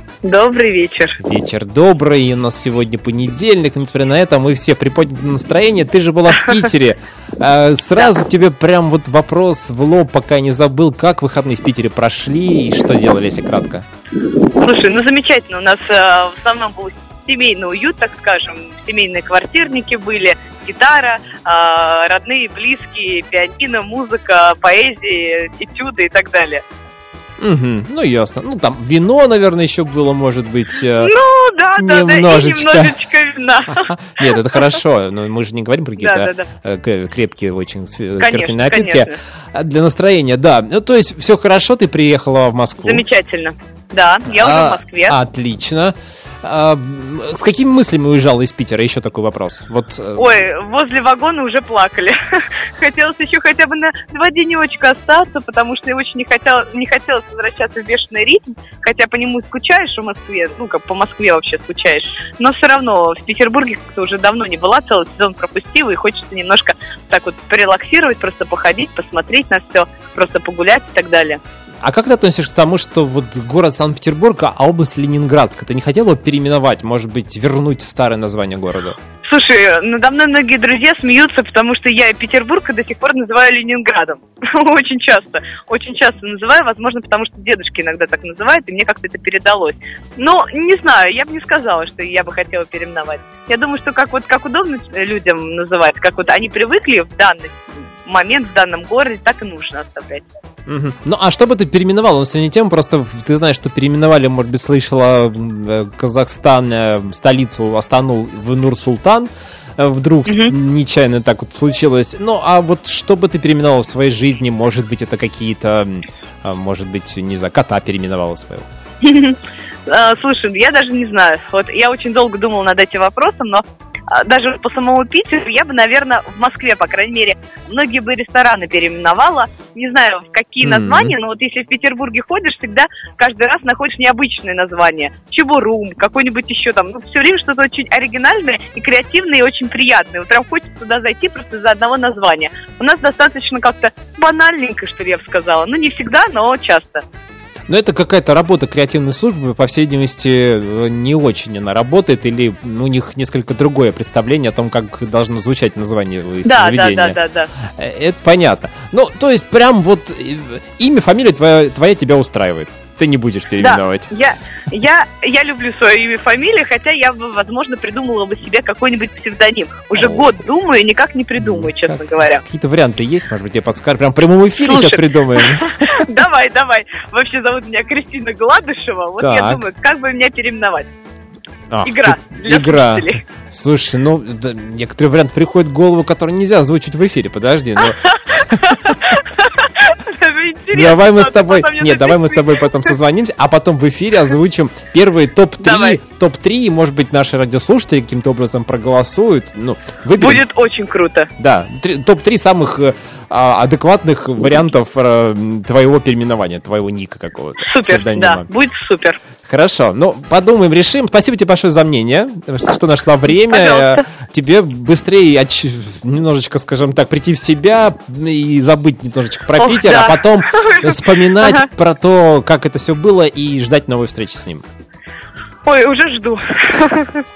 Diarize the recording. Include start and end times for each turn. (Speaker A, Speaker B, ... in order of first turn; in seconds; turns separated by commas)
Speaker A: 0.2-1.2, Speaker B: 1.2-13.8, Speaker A: 14.4-26.6, Speaker B: 27.4-31.1, Speaker A: 31.0-33.9, Speaker B: 31.8-32.9, Speaker B: 33.7-43.0, Speaker A: 36.0-36.5, Speaker A: 38.2-39.2, Speaker A: 42.8-45.1, Speaker B: 44.3-50.3, Speaker A: 50.2-71.4, Speaker B: 71.8-79.0, Speaker A: 79.2-100.2, Speaker B: 100.7-118.7, Speaker A: 110.3-110.5, Speaker A: 119.0-147.0, Speaker B: 130.6-131.1, Speaker B: 147.7-164.1, Speaker A: 156.4-157.5, Speaker A: 163.6-172.4, Speaker B: 170.0-170.2, Speaker B: 171.4-176.1, Speaker A: 174.6-180.9, Speaker B: 179.2-179.6, Speaker B: 181.7-188.9, Speaker A: 181.8-183.2, Speaker A: 188.1-192.9, Speaker B: 190.7-200.4, Speaker A: 195.6-196.0, Speaker A: 200.2-201.3, Speaker B: 201.4-208.5, Speaker A: 207.6-209.2, Speaker B: 209.4-224.6, Speaker A: 213.5-214.0, Speaker A: 219.6-221.7, Speaker A: 225.6-227.2